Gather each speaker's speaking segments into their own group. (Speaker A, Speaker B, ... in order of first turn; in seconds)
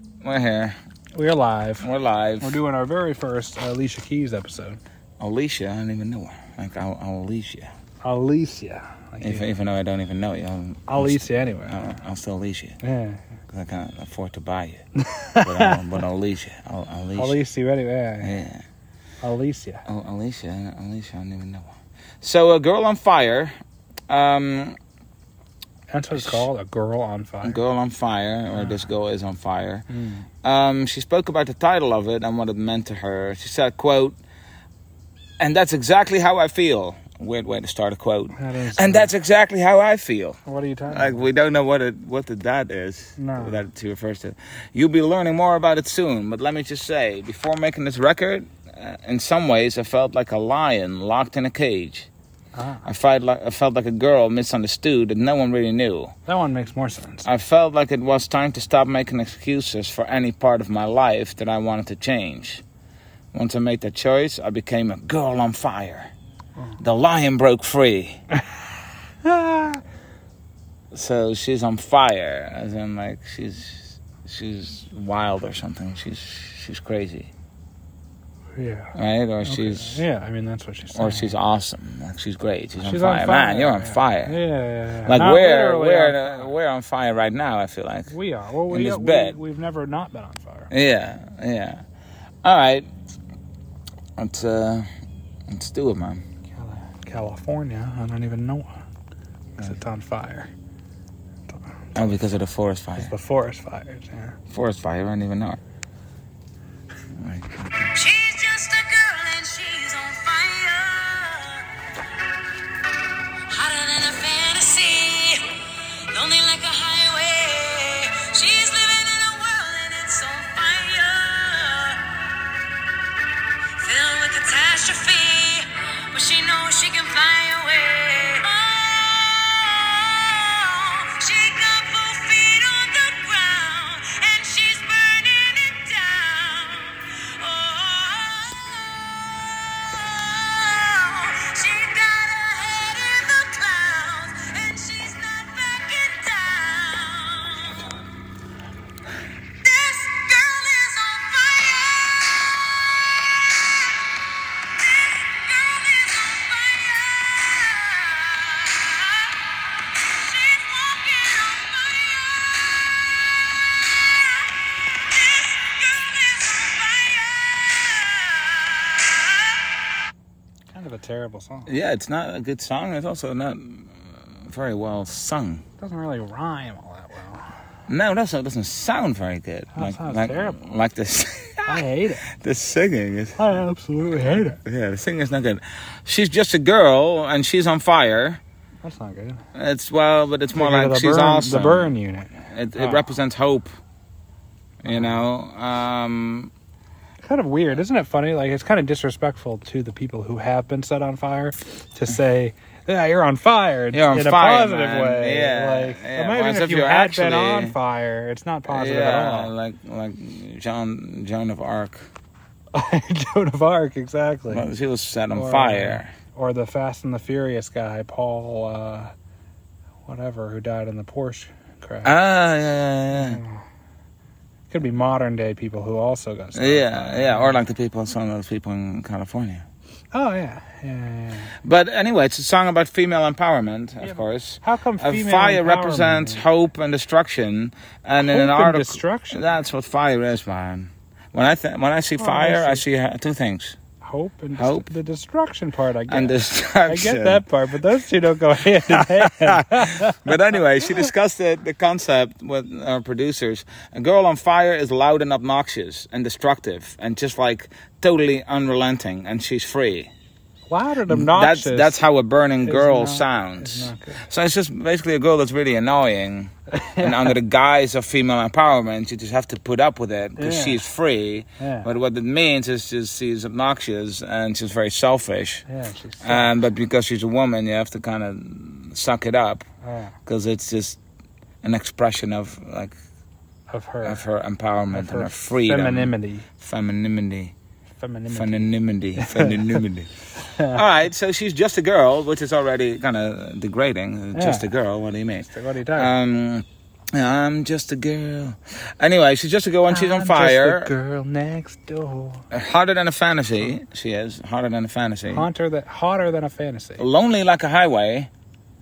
Speaker A: 0.2-0.8, 1.8-2.6, 5.2-7.7, 9.2-12.8, 13.5-14.8, 15.4-17.4, 18.2-18.6, 19.9-23.6, 24.1-24.8, 26.2-26.5, 27.4-29.9, 30.4-34.2, 35.4-52.1, 52.9-56.1, 57.2-62.6, 63.3-66.1, 66.8-68.2, 70.9-77.3, 79.0-80.0, 80.9-84.4, 85.0-88.1, 88.7-89.4, 90.7-91.8, 92.4-92.9, 94.2-94.9, 95.5-96.2, 102.0-103.1, 104.5-105.6, 107.2-108.0, 171.7-175.6, 177.9-181.8, 182.3-188.4, 189.5-193.7, 194.8-196.5, 203.9-207.8, 208.7-212.1, 214.5-216.1, 222.0-223.4, 226.6-229.7, 231.6-243.8, 244.6-244.9, 246.1-247.4, 248.9-260.1, 261.1-275.6, 276.2-279.7, 280.3-281.0, 281.6-282.9, 284.1-287.5, 288.3-300.9, 302.5-305.5, 307.0-308.3
Speaker B: 1.1-1.9, 2.4-4.8, 8.0-9.4, 10.9-12.0, 12.8-13.2, 15.0-15.9, 17.2-18.4, 19.2-19.9, 25.9-27.6, 28.5-28.8, 29.9-30.3, 38.4-39.1, 40.5-41.3, 43.2-43.7, 52.6-52.9, 56.3-57.3, 69.2-69.8, 78.6-78.9, 79.4-81.3, 82.8-86.5, 88.1-90.7, 96.5-98.8, 99.6-100.5, 103.0-104.4, 165.5-167.8, 170.7-171.7, 175.8-177.5, 179.7-180.6, 181.7-182.2, 183.4-184.6, 188.8-189.4, 190.6-193.1, 194.8-195.2, 197.2-209.5, 212.7-214.7, 215.3-219.1, 220.1-222.1, 223.2-223.6, 224.7-227.6, 230.1-231.5, 234.0-236.4, 238.2-239.5, 242.2-242.8, 244.0-250.4, 260.7-262.0, 262.6-264.2, 266.7-267.4, 270.4-270.8, 271.6-271.9, 275.7-276.6, 279.8-280.1, 283.7-284.2, 284.9-286.5, 288.0-289.8, 290.6-290.8, 294.3-294.7, 295.4-296.1, 299.9-302.5, 305.3-307.0
Speaker C: 108.1-111.6, 113.5-115.5, 116.1-122.0, 123.8-129.8, 130.5-139.0, 140.0-147.1, 149.7-152.3, 155.8-157.5, 160.6-161.5